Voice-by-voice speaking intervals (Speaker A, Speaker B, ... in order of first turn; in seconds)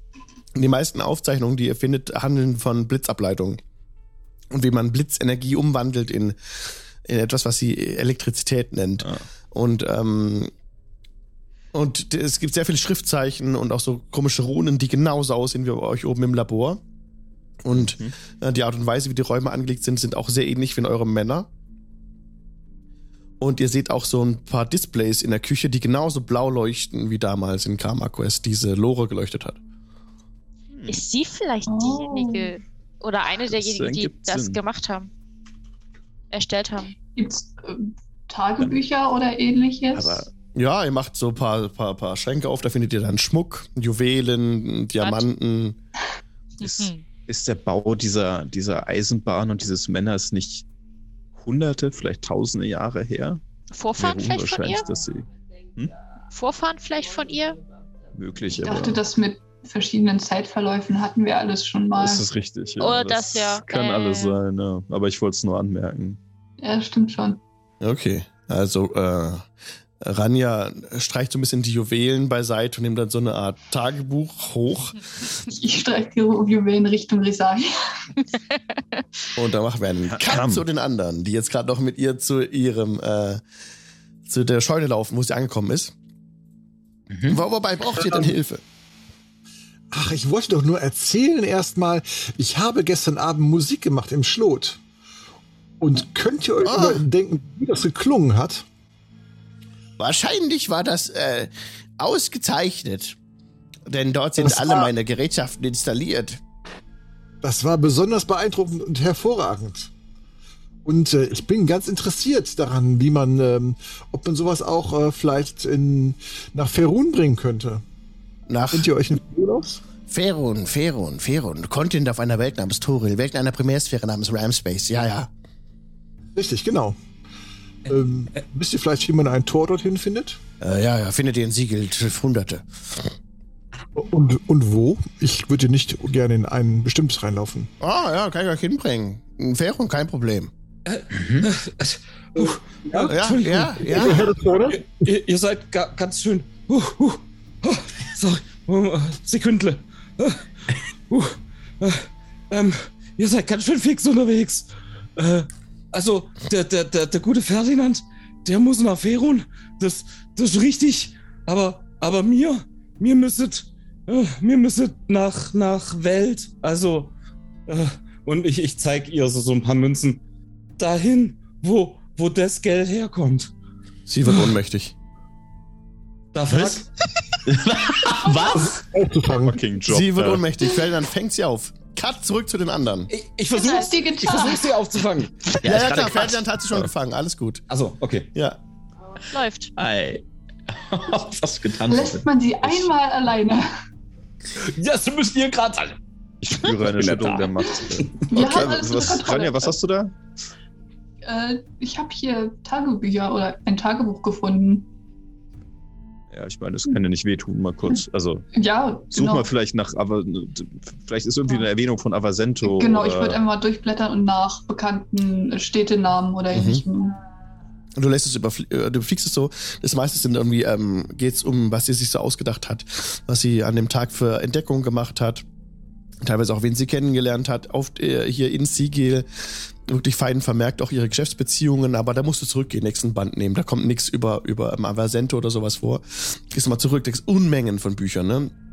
Speaker A: 0.6-3.6, 4.5-6.4, 7.0-10.5, 11.7-16.8, 17.6-21.5, 23.4-29.6, 40.5-45.8, 67.8-69.5, 70.0-75.0, 79.4-83.4, 84.3-85.9, 87.3-88.6, 96.6-97.0, 100.0-103.2, 103.9-106.4, 118.5-118.9, 120.1-125.3, 130.6-133.1, 137.8-140.5, 143.1-144.3, 174.1-174.9, 179.9-183.1, 185.6-187.6, 188.3-188.6, 216.5-216.8, 218.0-225.4, 226.2-229.3, 229.8-238.5
Speaker B: 17.8-18.1, 30.7-31.0, 33.4-34.6, 39.9-40.3, 46.6-50.6, 51.4-53.4, 54.0-55.9, 58.1-59.0, 62.0-66.2, 80.1-80.6, 179.4-180.4, 196.4-200.2, 206.3-208.5, 209.1-213.4
Speaker C: 30.9-35.1, 36.3-37.0, 45.0-45.3, 46.6-47.0, 53.7-54.9, 56.3-57.6, 62.8-64.4, 183.6-183.9, 189.3-189.7
Speaker D: 31.7-32.5, 37.1-40.3, 58.6-62.3, 66.6-67.4, 75.5-77.7, 183.6-184.7, 191.9-193.7, 198.3-199.8, 201.2-204.9, 208.5-209.5, 212.6-217.2
Speaker E: 87.1-87.4, 141.1-141.5, 176.5-176.8, 177.4-178.8, 185.6-186.4, 189.8-192.3
Speaker F: 88.0-88.3, 89.9-94.8, 95.8-98.7, 104.4-104.9, 107.4-109.9, 110.8-117.8, 118.7-119.8, 126.3-127.0, 127.9-130.4, 133.9-137.7, 142.4-143.2, 143.9-145.0, 178.5-179.7
Speaker G: 140.9-150.4, 151.1-167.1, 167.7-170.2, 170.8-173.5, 176.3-176.8, 183.1-185.4, 187.7-188.3, 194.6-196.0, 196.7-198.2